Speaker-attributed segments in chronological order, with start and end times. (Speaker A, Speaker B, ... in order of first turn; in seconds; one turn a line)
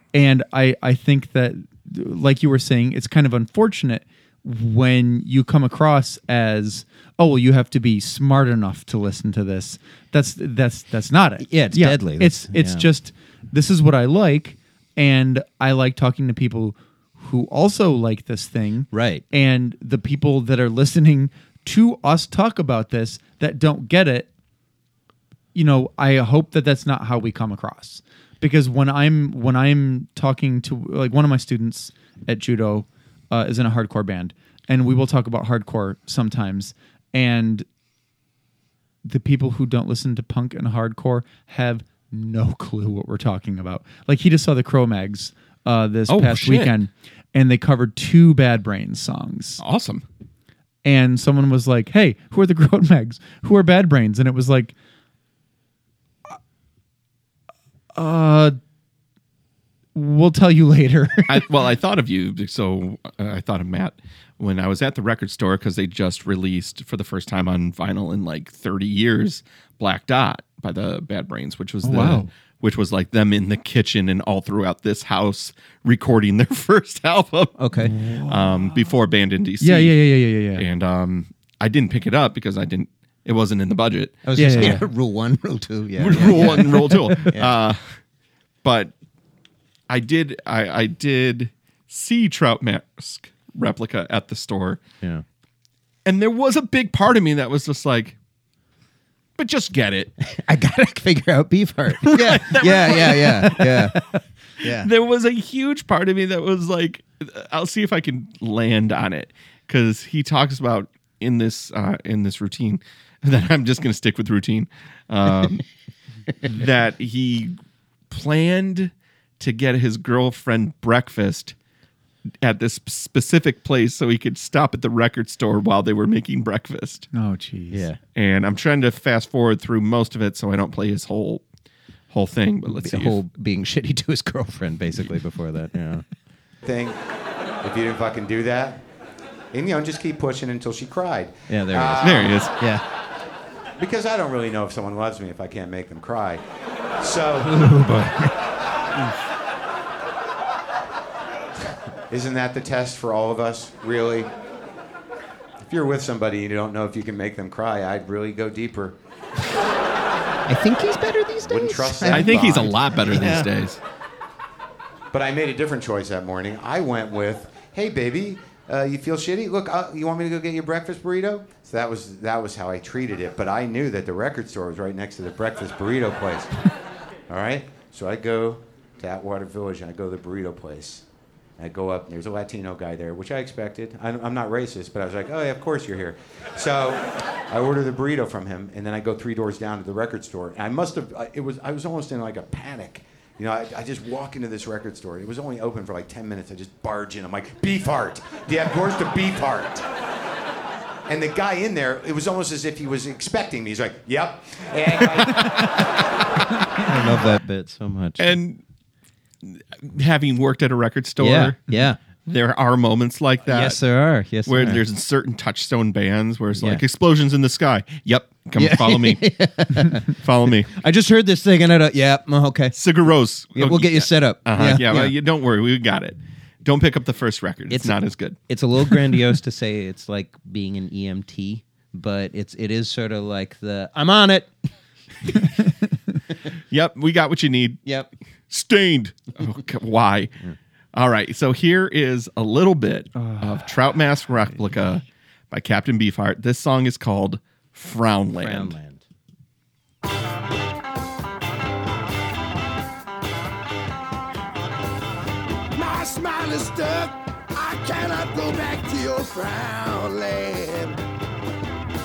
Speaker A: 0.1-24.3
Speaker B: 11.4-12.9
Speaker B: 18.9-19.2
Speaker A: 25.6-37.7
Speaker A: 39.0-49.6
Speaker C: 46.1-46.8
Speaker C: 49.6-50.0
Speaker A: 50.8-54.7
Speaker A: 58.0-58.6
Speaker A: 60.0-61.5
Speaker C: 61.3-77.6
Speaker A: 71.8-72.3
Speaker B: 77.6-77.9
Speaker A: 77.9-78.8
Speaker C: 78.3-80.0
Speaker A: 79.6-80.7
Speaker C: 80.6-84.8
Speaker B: 84.2-87.6
Speaker A: 84.3-84.8
Speaker C: 86.0-88.0
Speaker C: 88.6-88.9
Speaker C: 89.9-94.8
Speaker C: 96.0-98.2
Speaker C: 99.4-100.1
Speaker B: 100.2-104.0
Speaker C: 102.0-103.9
Speaker B: 104.6-104.9
Speaker C: 104.6-115.7
Speaker C: 116.4-117.5
Speaker C: 118.1-121.5
Speaker C: 122.4-127.1
Speaker A: 127.1-127.9
Speaker B: 127.7-128.0
Speaker C: 128.2-131.4
Speaker C: 132.1-133.2
Speaker B: 132.7-136.1
Speaker D: 136.6-137.0
Speaker D: 137.6-138.8
Speaker D: 139.5-142.5
Speaker B: 141.5-142.8
Speaker C: 142.0-142.5
Speaker D: 143.8-146.4
Speaker D: 147.0-147.7
Speaker B: 147.4-148.3
Speaker D: 152.1-154.3
Speaker D: 155.6-159.0
Speaker B: 160.5-163.5
Speaker D: 161.4-162.8
Speaker C: 162.1-163.8
Speaker D: 165.1-176.7
Speaker D: 177.3-181.0
Speaker D: 181.6-199.9
Speaker D: 201.1-205.8
Speaker B: 205.3-205.6
Speaker B: 206.7-208.4
Speaker C: 208.2-208.6
Speaker C: 209.4-211.7
Speaker B: 211.2-212.0
Speaker C: 212.2-213.8
Speaker B: 213.4-214.8
Speaker C: 214.4-219.3
Speaker B: 216.6-216.8
Speaker B: 218.6-222.8
Speaker C: 220.1-220.7
Speaker C: 222.7-228.4
Speaker B: 223.6-225.2
Speaker B: 227.7-234.5
Speaker C: 236.7-237.8
Speaker B: 237.8-238.1
Speaker C: 238.5-240.3
Speaker C: 240.9-248.8
Speaker A: 243.2-243.6
Speaker B: 248.3-249.0
Speaker E: 255.8-260.9